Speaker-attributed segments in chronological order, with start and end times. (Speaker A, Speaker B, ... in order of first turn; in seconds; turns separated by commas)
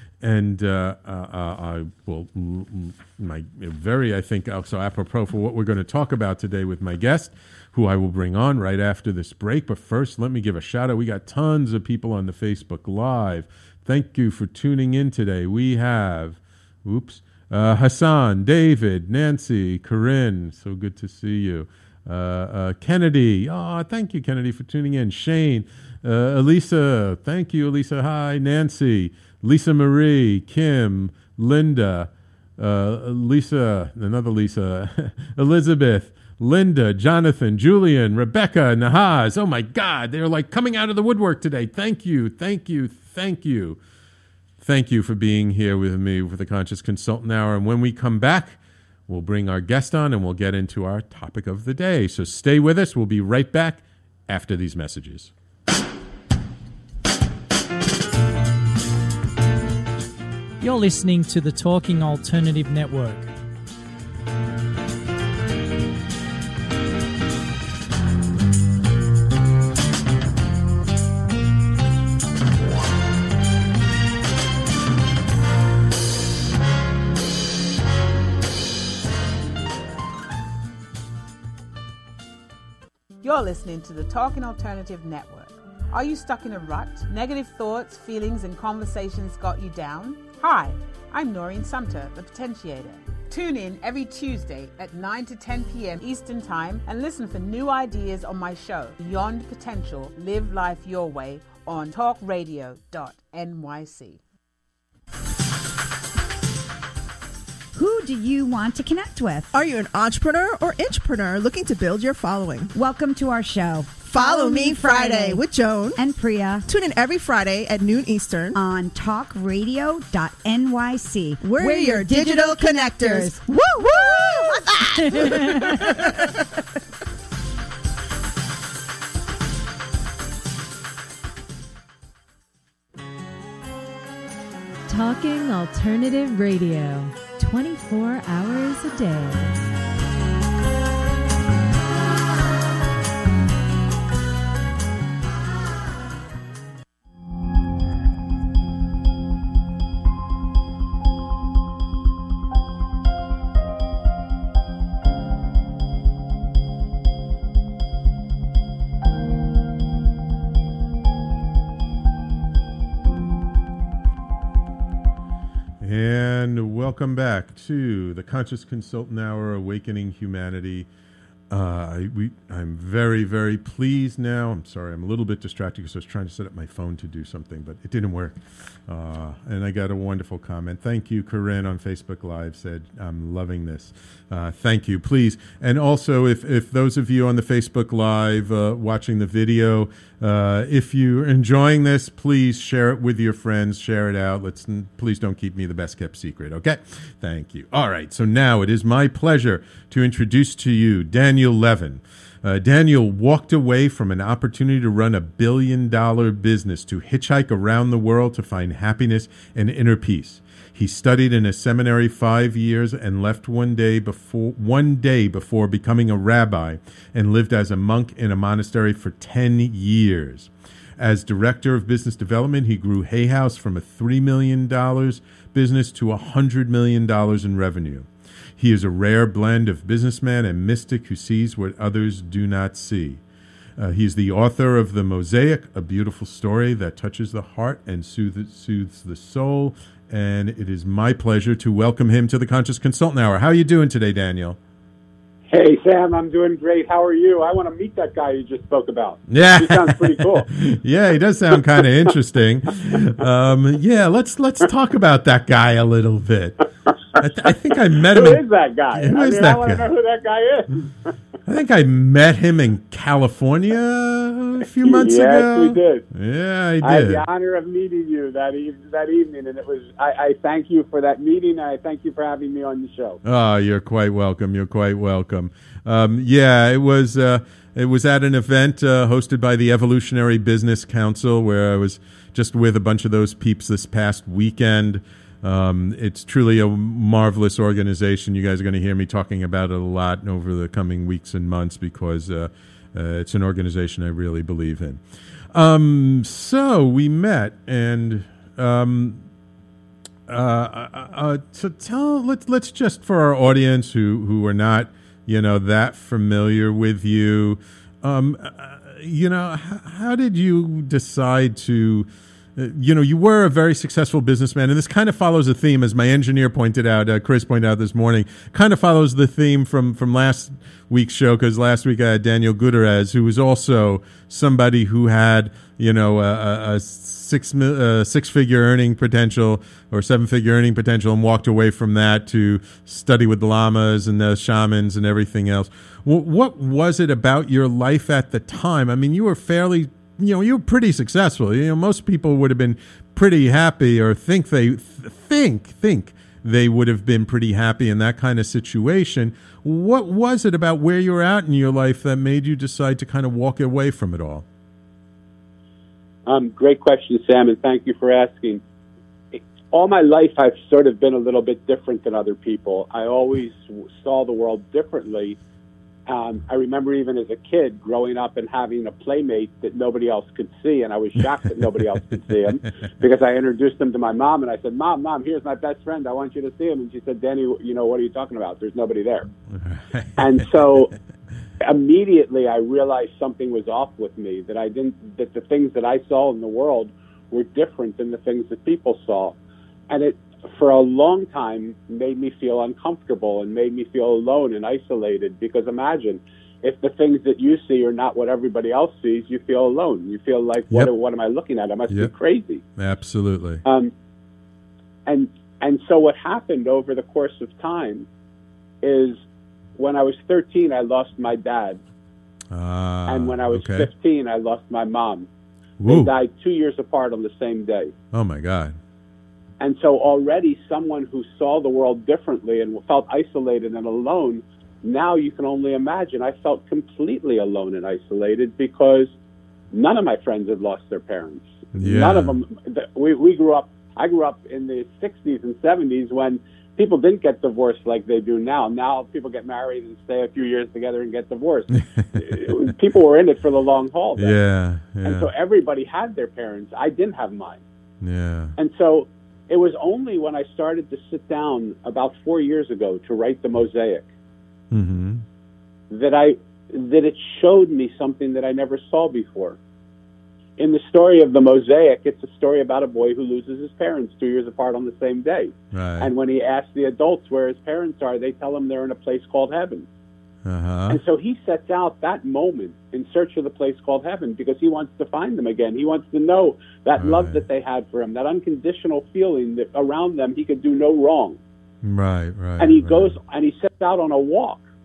Speaker A: 0.2-43.8, Speaker A: 44.6-55.3, Speaker B: 60.6-63.3, Speaker C: 83.2-104.2, Speaker D: 107.7-109.5, Speaker E: 109.5-112.7, Speaker D: 112.7-115.4, Speaker E: 114.0-116.0, Speaker D: 116.0-116.7, Speaker E: 116.7-118.6, Speaker D: 118.5-125.8, Speaker E: 121.4-126.2, Speaker F: 134.9-139.5, Speaker A: 165.8-170.9, Speaker A: 171.5-233.2, Speaker A: 233.8-244.6, Speaker G: 245.5-250.5, Speaker A: 249.3-259.9, Speaker G: 251.5-251.8, Speaker G: 258.0-260.9, Speaker A: 261.4-267.2, Speaker G: 264.8-266.0, Speaker G: 266.8-273.2, Speaker A: 273.2-299.2, Speaker A: 300.3-354.4, Speaker G: 356.2-358.6, Speaker G: 359.3-365.4, Speaker G: 366.1-379.3, Speaker A: 379.5-380.7, Speaker G: 380.2-380.9, Speaker G: 381.6-389.4, Speaker G: 389.9-402.6, Speaker A: 402.8-403.6, Speaker G: 403.6-403.9, Speaker G: 405.1-408.1, Speaker G: 408.8-409.2, Speaker G: 409.8-411.8, Speaker A: 412.5-413.9, Speaker G: 413.1-415.3, Speaker A: 415.8-416.1, Speaker G: 415.9-417.9, Speaker A: 418.1-418.8, Speaker G: 419.6-429.1, Speaker G: 429.7-444.4, Speaker A: 431.8-432.4, Speaker A: 441.9-442.7, Speaker A: 444.2-445.3, Speaker G: 445.0-447.6, Speaker A: 448.0-448.5, Speaker G: 448.6-454.1, Speaker A: 454.7-455.2, Speaker G: 455.9-459.6, Speaker G: 460.6-469.9, Speaker A: 465.7-466.1, Speaker A: 470.4-471.0, Speaker G: 470.9-481.4, Speaker A: 477.0-477.4, Speaker A: 481.8-483.2, Speaker G: 482.6-484.6